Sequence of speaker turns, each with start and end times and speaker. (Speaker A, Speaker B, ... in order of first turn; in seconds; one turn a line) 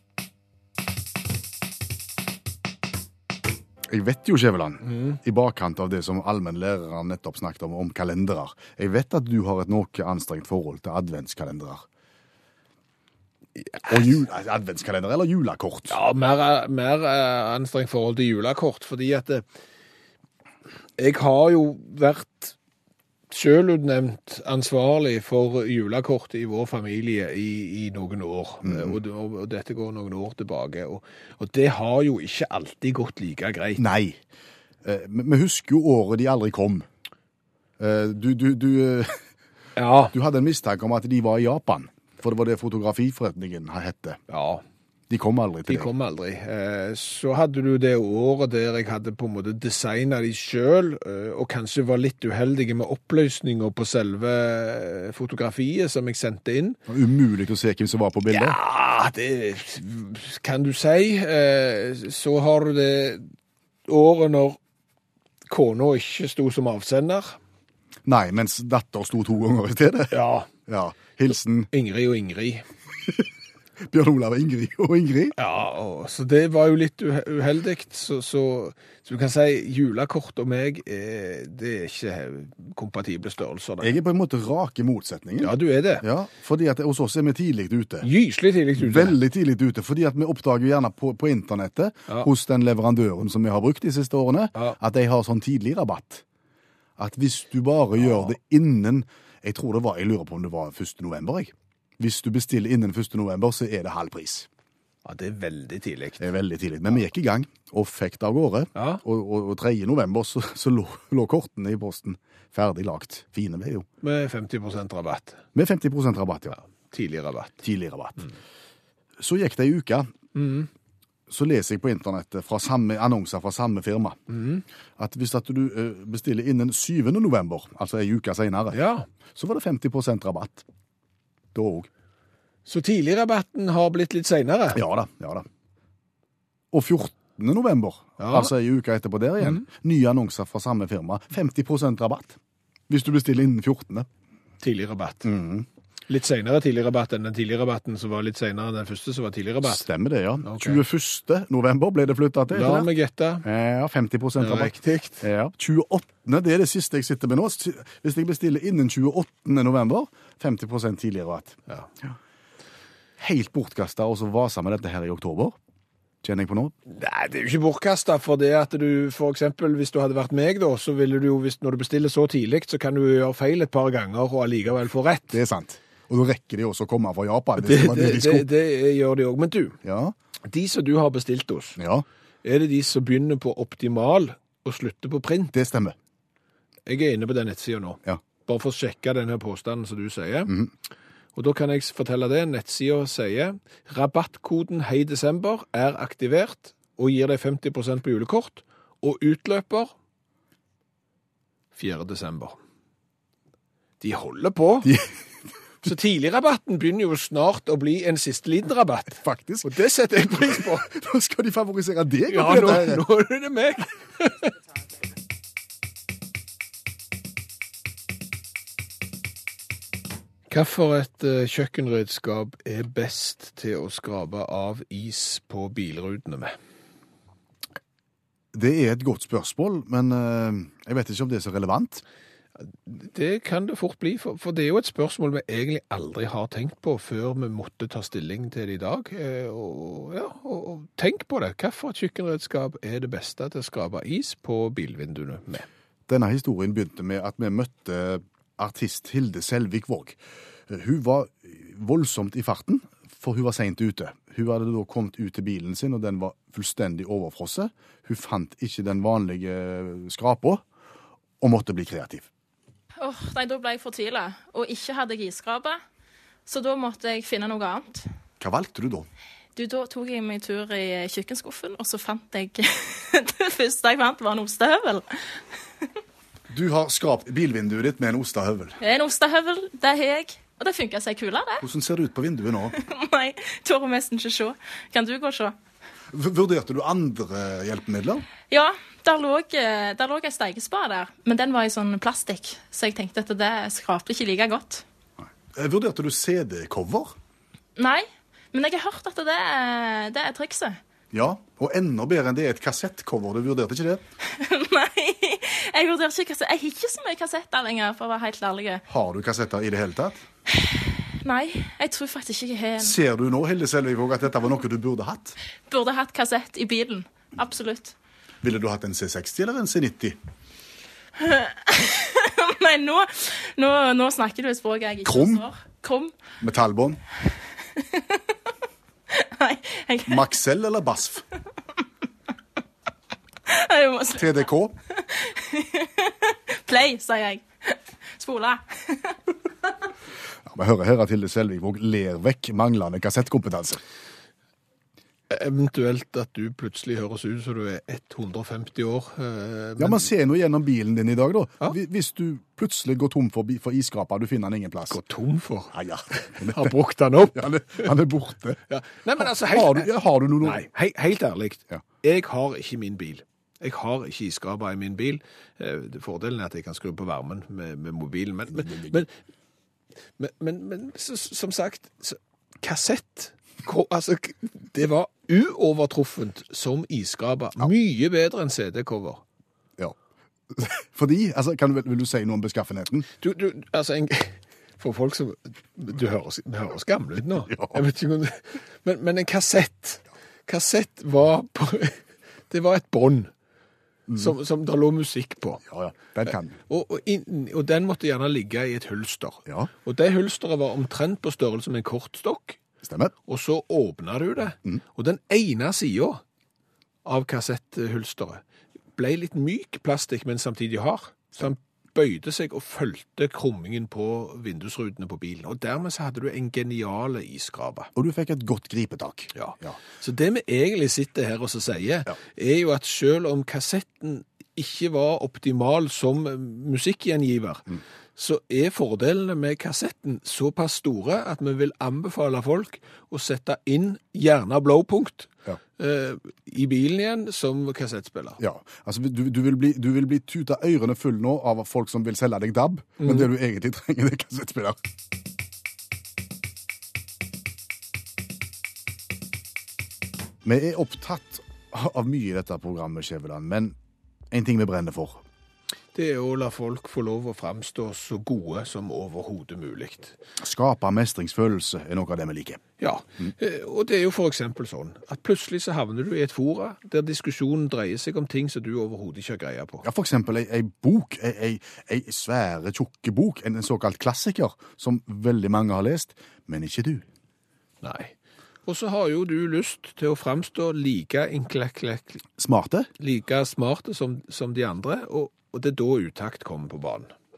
Speaker A: 3.9-11.8
Speaker B: 13.6-14.1
Speaker A: 13.9-16.0
Speaker B: 15.9-19.4
Speaker B: 21.0-22.6
Speaker B: 23.3-33.8
Speaker A: 28.6-29.0
Speaker A: 33.8-34.2
Speaker A: 34.8-36.9
Speaker A: 37.8-39.2
Speaker B: 39.8-40.1
Speaker A: 40.1-44.2
Speaker B: 44.3-44.6
Speaker A: 45.1-45.9
Speaker B: 45.7-56.8
Speaker A: 56.9-58.6
Speaker B: 58.3-63.3
Speaker B: 63.9-64.6
Speaker B: 65.5-67.4
Speaker A: 68.0-71.7
Speaker B: 70.1-70.5
Speaker B: 71.7-72.7
Speaker A: 73.8-75.4
Speaker B: 75.4-84.0
Speaker A: 83.8-88.1
Speaker B: 85.4-86.1
Speaker B: 88.0-89.2
Speaker A: 88.8-96.2
Speaker A: 97.0-104.5
Speaker B: 105.0-106.3
Speaker A: 106.2-113.9
Speaker B: 108.8-109.0
Speaker B: 114.0-115.4
Speaker A: 115.5-116.6
Speaker B: 116.9-117.6
Speaker A: 117.6-118.3
Speaker A: 119.2-120.1
Speaker B: 120.3-120.7
Speaker A: 121.3-124.2
Speaker B: 124.3-124.6
Speaker A: 125.0-128.8
Speaker B: 128.7-129.1
Speaker A: 129.3-130.7
Speaker A: 131.5-131.9
Speaker B: 132.7-134.8
Speaker A: 134.7-135.5
Speaker A: 136.7-144.1
Speaker B: 138.2-138.5
Speaker B: 144.6-145.3
Speaker A: 145.2-145.7
Speaker B: 146.1-149.9
Speaker A: 149.6-152.9
Speaker B: 150.4-150.8
Speaker B: 152.5-153.5
Speaker A: 153.4-162.2
Speaker B: 154.4-155.3
Speaker A: 163.2-165.6
Speaker A: 166.2-166.7
Speaker B: 166.9-175.4
Speaker A: 175.3-178.5
Speaker B: 177.6-179.8
Speaker A: 179.8-180.2
Speaker B: 180.5-181.8
Speaker A: 181.8-182.1
Speaker B: 182.4-185.5
Speaker A: 185.5-186.0
Speaker B: 186.9-190.6
Speaker A: 190.5-190.7
Speaker B: 191.3-199.9
Speaker B: 201.8-202.6
Speaker B: 204.0-205.0
Speaker A: 204.8-205.3
Speaker B: 205.8-210.9
Speaker A: 209.2-209.8
Speaker A: 210.4-213.1
Speaker B: 212.3-214.5
Speaker B: 220.5-226.6
Speaker A: 228.5-232.0
Speaker B: 232.9-245.7
Speaker A: 246.1-260.6
Speaker A: 261.4-262.3
Speaker C: 263.0-265.8
Speaker C: 266.5-268.1
Speaker A: 268.4-269.1
Speaker C: 269.6-275.9
Speaker A: 276.5-278.8
Speaker C: 278.8-281.7
Speaker A: 281.6-282.8
Speaker C: 282.8-285.6
Speaker A: 286.1-288.3
Speaker C: 288.5-294.8
Speaker A: 295.2-297.1
Speaker C: 297.8-300.8
Speaker A: 301.1-304.0
Speaker C: 304.3-308.8
Speaker A: 308.9-310.2
Speaker C: 310.6-313.0
Speaker A: 312.8-315.4
Speaker C: 315.7-317.9
Speaker A: 318.4-320.2
Speaker C: 321.2-326.1
Speaker A: 325.1-325.5
Speaker A: 326.4-327.0
Speaker C: 327.8-328.2
Speaker C: 329.1-330.3
Speaker A: 330.1-331.2
Speaker C: 333.5-334.4
Speaker A: 334.1-334.8
Speaker C: 335.0-339.2
Speaker A: 340.4-343.8
Speaker B: 345.3-350.0
Speaker A: 349.8-355.0
Speaker B: 354.9-357.9
Speaker A: 355.7-356.8
Speaker A: 357.3-358.6
Speaker B: 358.7-369.1
Speaker A: 359.2-360.7
Speaker A: 368.5-369.1
Speaker B: 370.2-379.2
Speaker A: 380.5-383.1
Speaker B: 383.2-393.3
Speaker A: 387.5-387.8
Speaker A: 394.1-394.4
Speaker B: 394.2-395.6
Speaker A: 395.7-396.6
Speaker B: 396.7-402.6
Speaker A: 402.8-403.1
Speaker B: 403.3-406.2
Speaker B: 407.1-408.4
Speaker B: 409.0-417.9
Speaker A: 417.9-419.8
Speaker B: 419.4-438.4
Speaker A: 438.4-444.8
Speaker B: 443.0-443.3
Speaker A: 450.4-453.8
Speaker A: 454.3-455.2
Speaker B: 455.9-460.2
Speaker A: 460.4-462.6
Speaker B: 462.8-469.9
Speaker A: 469.8-477.1
Speaker B: 477.8-482.3
Speaker A: 482.4-482.9
Speaker B: 483.0-487.1